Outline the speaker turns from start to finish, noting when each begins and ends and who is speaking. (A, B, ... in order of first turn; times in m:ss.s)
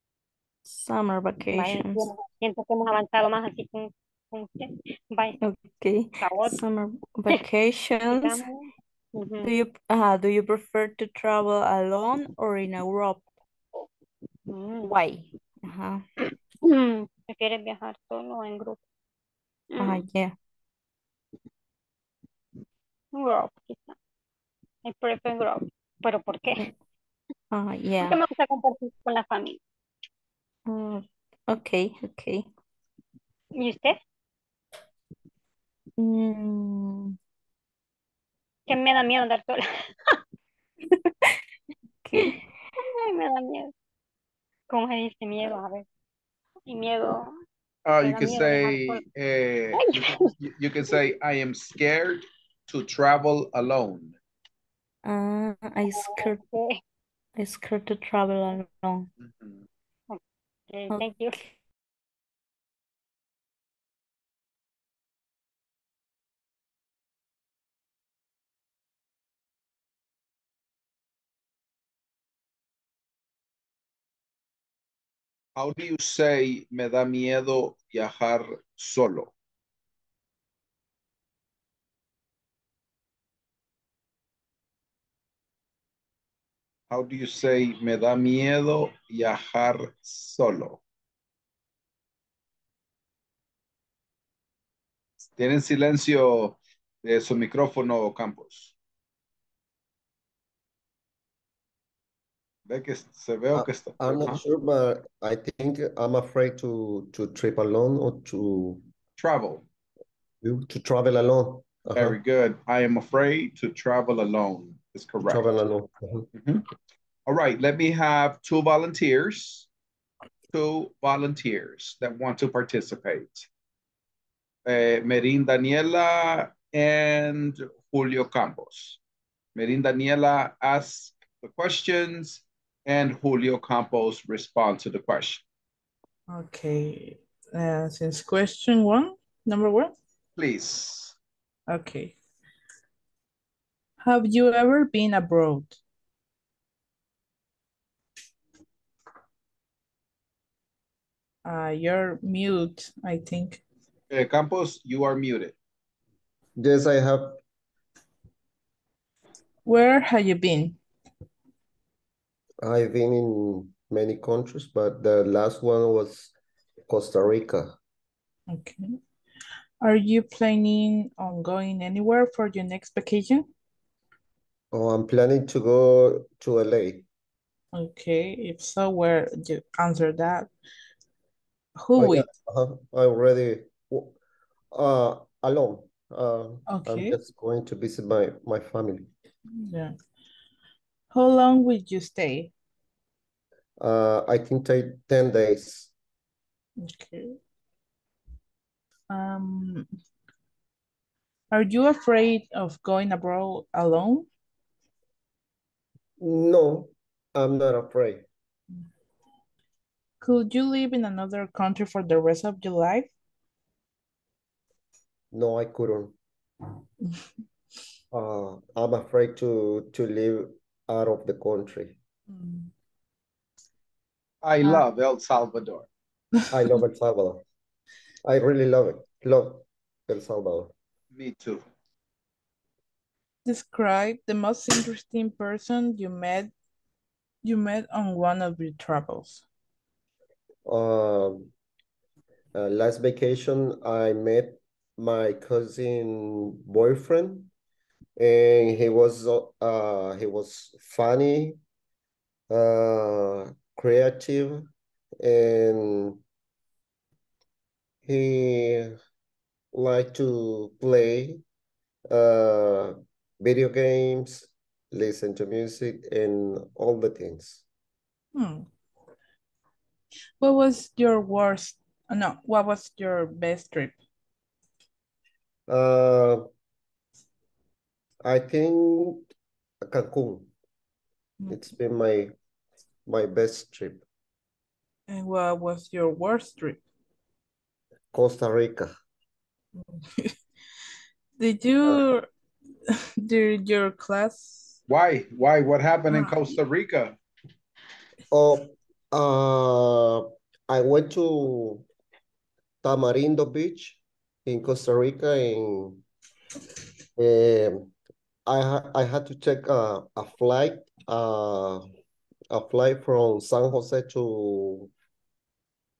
0:00.7-0:02.1 A
0:01.5-0:05.4 B
0:05.4-0:08.4 A
0:06.2-0:06.6 B
0:08.2-0:09.5 B
0:09.4-0:13.2 A
0:14.5-0:15.0 B
0:14.8-0:16.0 A
0:16.6-0:18.8 B
0:19.7-0:20.0 B
0:19.8-0:20.3 A
0:23.2-0:24.0 B
0:24.8-0:26.7 B
0:27.5-0:28.2 A
0:28.0-0:29.6 B
0:30.7-0:32.5 A
0:33.6-0:34.0 B
0:36.0-0:37.2 A
0:38.7-0:39.6 B
0:42.0-0:42.4 A
0:42.2-0:43.7 B
0:44.7-0:45.8 B
0:46.7-0:47.3 B
0:47.9-0:54.2 C
0:48.0-0:49.0 B
0:49.8-0:50.3 B
0:55.0-0:56.4 A
0:55.9-0:56.8 B
0:57.4-0:59.1 A
0:59.2-0:59.7 C
1:00.7-1:01.4 B
1:00.9-1:01.5 A
1:15.6-1:19.3 C
1:26.9-1:30.8 C
1:35.4-1:38.7 C
1:42.7-1:44.4 C
1:43.5-1:48.8 D
1:49.2-1:49.6 C
1:50.4-1:52.2 D
1:52.0-1:55.4 C
1:55.2-1:56.3 D
1:56.3-1:56.6 C
1:57.3-1:59.7 C
2:00.5-2:03.5 C
2:04.7-2:09.0 C
2:09.6-2:15.4 C
2:16.3-2:19.9 E
2:20.4-2:21.2 C
2:21.7-2:22.2 E
2:24.0-2:25.8 E
2:31.4-2:33.6 E
2:34.1-2:35.6 C
2:36.6-2:37.4 D
2:39.6-2:40.8 E
2:42.6-2:46.3 D
2:46.9-2:47.8 D
2:48.5-2:49.0 E
2:49.8-2:53.5 E
2:54.7-2:57.0 D
2:57.7-3:00.5 E
3:01.8-3:02.3 E
3:02.0-3:04.1 D
3:04.7-3:09.1 D
3:06.7-3:07.2 E
3:09.5-3:09.9 E
3:11.1-3:12.5 E
3:13.8-3:15.9 D
3:16.8-3:17.4 E
3:19.1-3:19.9 E
3:21.5-3:24.3 E
3:26.2-3:28.3 D
3:30.2-3:33.1 E
3:35.3-3:36.2 D
3:38.1-3:42.0 D
3:42.3-3:42.7 E
3:44.4-3:45.9 C
3:46.5-3:47.4 D
3:48.2-3:50.7 D
3:51.1-3:51.6 C
3:53.4-3:56.5 E
3:57.4-3:59.4 E
4:00.7-4:01.5 D
4:02.5-4:07.5 D
4:08.2-4:11.6 D
4:12.5-4:14.7 D
4:15.2-4:16.2 D
4:18.0-4:19.0 D
4:19.7-4:21.4 D
4:22.1-4:27.6 D
4:28.3-4:28.7 E
4:30.4-4:34.0 E
4:35.7-4:36.5 D
4:38.2-4:39.3 D
4:39.8-4:40.5 D
4:41.5-4:42.3 D
4:43.1-4:44.0 D
4:45.1-4:46.8 E
4:48.1-4:48.9 D
4:49.8-4:50.4 E
4:51.4-4:52.3 E
4:51.9-4:52.1 D
4:52.9-4:54.8 E
4:54.9-4:57.2 C
4:56.1-4:56.6 E
4:58.3-5:01.8 D
5:02.8-5:06.0 D
5:07.2-5:07.9 D
5:08.5-5:11.8 D
5:12.5-5:14.9 D